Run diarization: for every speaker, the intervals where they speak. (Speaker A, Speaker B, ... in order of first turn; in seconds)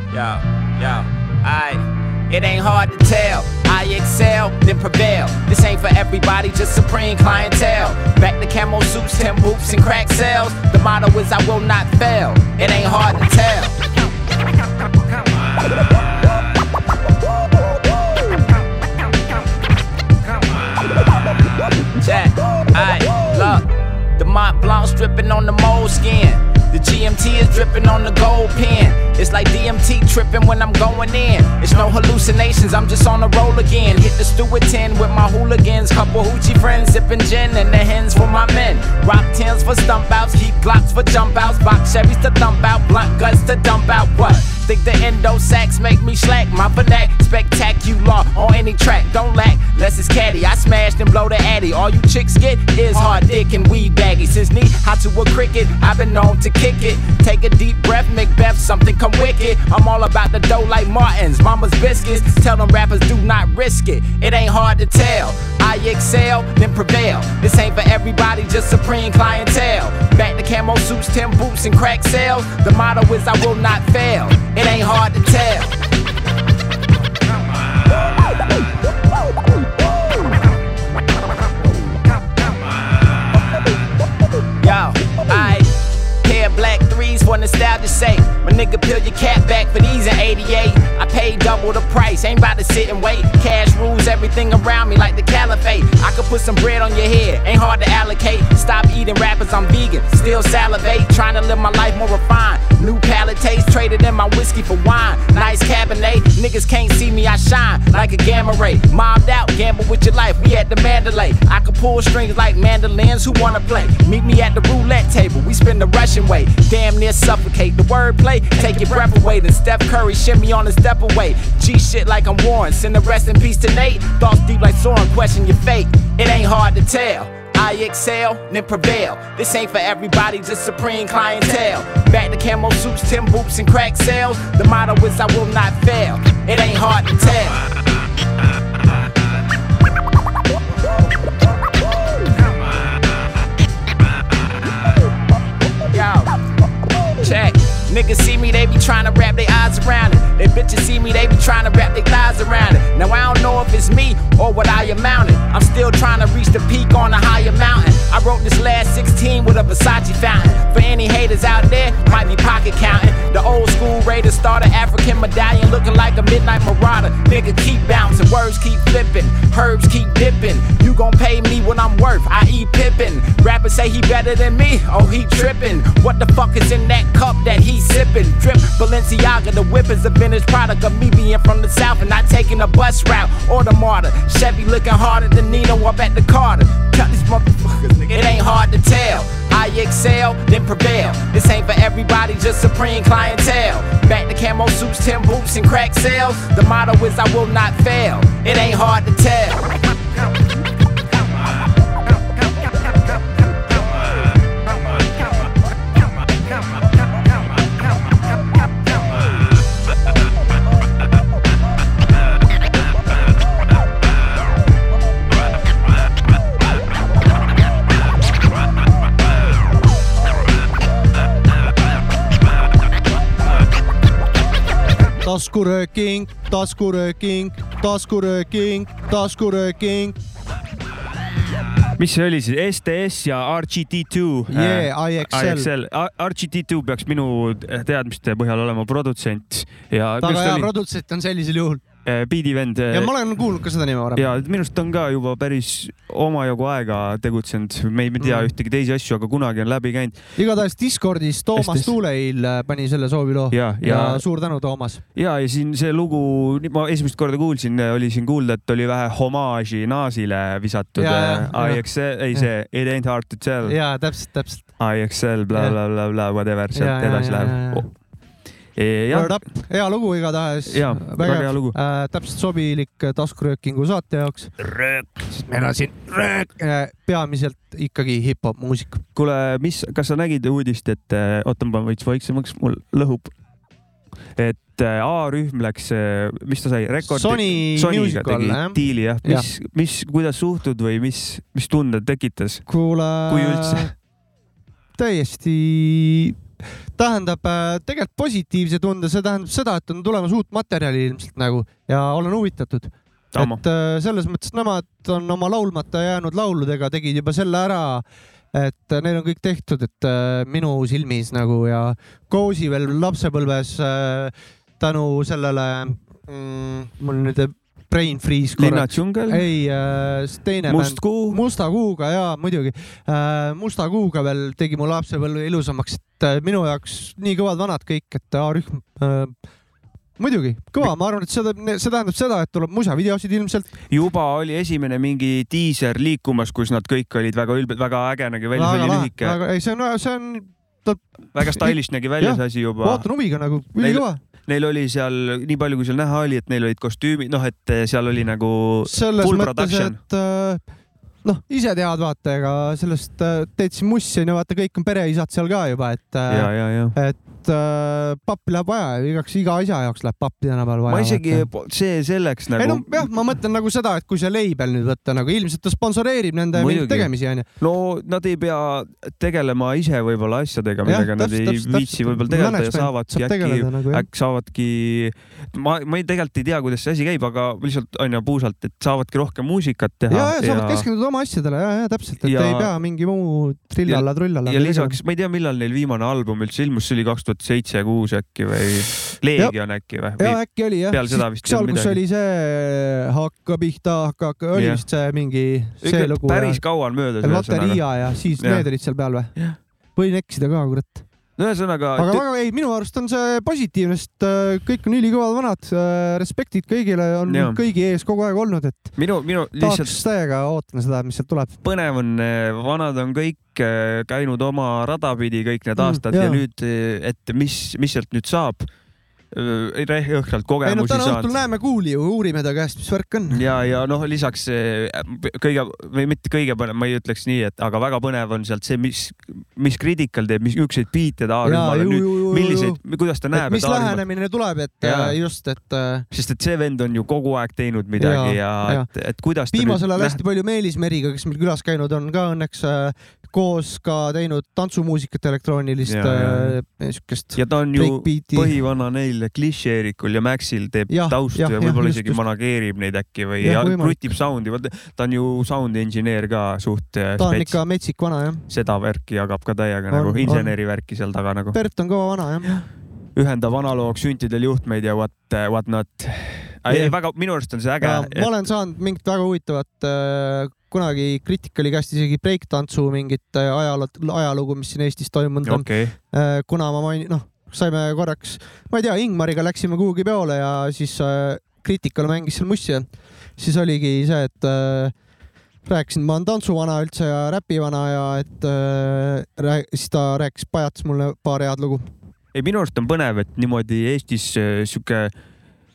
Speaker A: 0.1-13.7, 22.0-23.6, 24.2-75.7, 84.6-85.7, 86.2-137.6, 145.9-146.4, 147.2-199.6
Speaker B: 225.2-230.2, 234.5-235.7, 240.2-241.8, 242.9-244.3, 248.2-248.5, 250.3-255.0, 260.9-262.5, 263.6-264.9, 266.7-267.9, 269.1-274.7, 275.3-279.0, 287.0-289.4, 292.7-293.9, 295.0-296.4, 296.9-329.3, 330.2-333.7, 338.5-344.2, 348.8-350.7, 351.2-361.5, 362.6-367.5, 370.8-374.1, 380.1-385.0, 390.2-396.7, 397.2-399.4, 399.9-401.1, 401.9-411.6, 415.8-416.4, 420.6-423.4, 431.4-432.8, 433.3-436.1, 437.9-438.9, 439.5-448.6, 450.9-452.2, 453.4-454.1, 457.2-458.4, 459.9-460.6, 461.5-462.5, 466.7-466.9, 467.8-484.9, 485.6-491.9
Speaker C: 232.0-240.7, 242.0-243.1, 244.2-250.3, 251.6-251.9, 253.5-254.2, 255.1-263.8, 264.8-267.9, 268.7-269.4, 270.7-271.8, 279.1-283.4, 284.4-292.7, 293.3-293.9, 303.3-303.6, 318.6-319.4, 320.7-321.4, 333.9-339.4, 341.3-343.1, 343.8-350.0, 356.3-356.9, 360.9-363.1, 366.6-380.9, 382.2-382.7, 383.9-392.0, 394.5-394.8, 395.8-398.7, 401.4-402.2, 407.3-407.6, 408.9-410.0, 411.6-418.7, 419.3-421.3, 423.3-434.1, 434.8-435.2, 436.1-440.2, 445.8-446.6, 447.3-457.6, 458.5-461.6, 463.1-468.4, 475.4-475.9, 492.3-495.1